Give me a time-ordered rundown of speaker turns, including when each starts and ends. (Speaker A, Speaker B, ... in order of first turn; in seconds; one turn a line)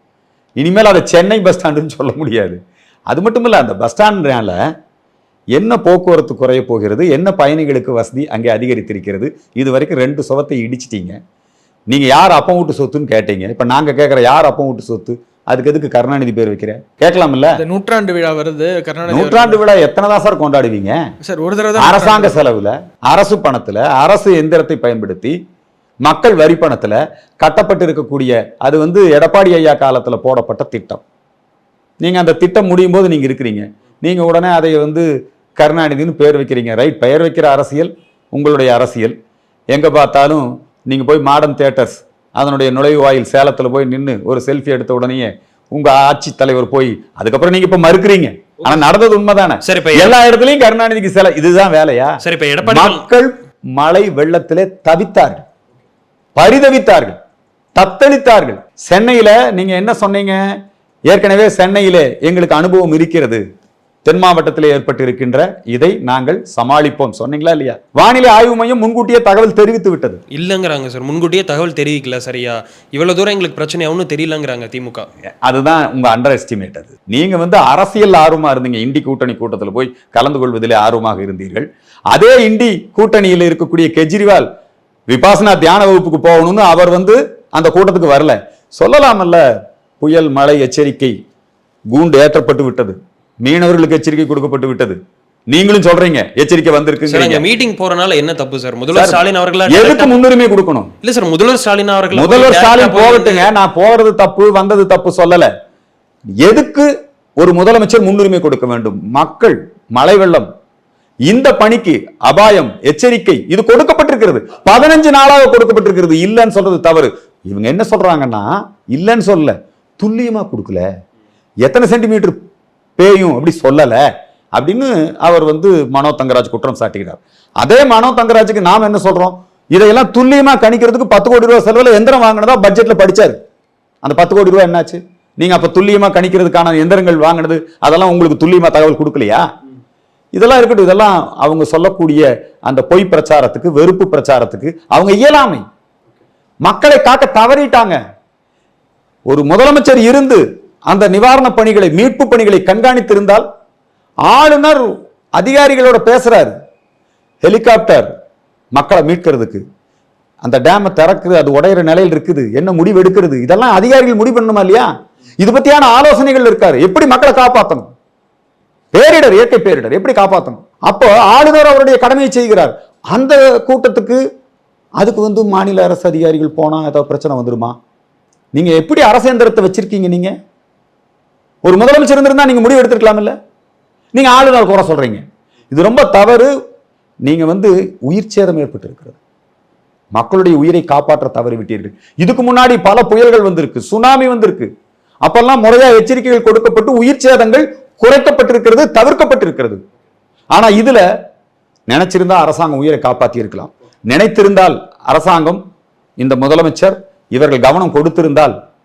Speaker A: 0.6-4.6
Speaker A: 5.5-11.2
Speaker A: 11.9-17.6
Speaker B: 17.6-19.6
Speaker A: 19.1-21.0
Speaker B: 21.2-22.4
Speaker A: 21.8-25.4
Speaker A: 26.0-31.0
Speaker A: 32.0-39.1
Speaker A: 39.7-55.4
Speaker C: 49.6-50.1
Speaker C: 52.2-53.0
Speaker A: 56.4-57.2
Speaker A: 57.7-63.4
Speaker A: 64.0-70.2
Speaker C: 70.3-75.1
Speaker A: 75.4-84.5
Speaker A: 85.1-89.5
Speaker A: 90.0-91.2
Speaker A: 91.9-95.0
Speaker A: 95.5-97.4
Speaker C: 97.1-100.2
Speaker A: 98.9-100.9
Speaker C: 101.0-103.5
Speaker A: 102.1-105.5
Speaker A: 106.4-110.5
Speaker A: 111.3-120.9
Speaker A: 121.6-122.4
Speaker A: 123.0-133.4
Speaker A: 134.0-139.5
Speaker A: 140.3-145.6
Speaker A: 146.6-148.0
Speaker A: 149.3-153.4
Speaker A: 154.3-156.5
Speaker A: 157.4-158.1
Speaker A: 158.7-159.6
Speaker A: 160.4-167.9
Speaker A: 168.9-174.2
Speaker A: 175.0-177.8
Speaker A: 178.5-180.3
Speaker A: 181.6-183.3
Speaker A: 184.1-186.5
Speaker A: 187.2-189.2
Speaker A: 190.1-194.7
Speaker A: 195.2-199.8
Speaker A: 200.5-201.1
Speaker A: 201.9-205.6
Speaker A: 206.2-208.6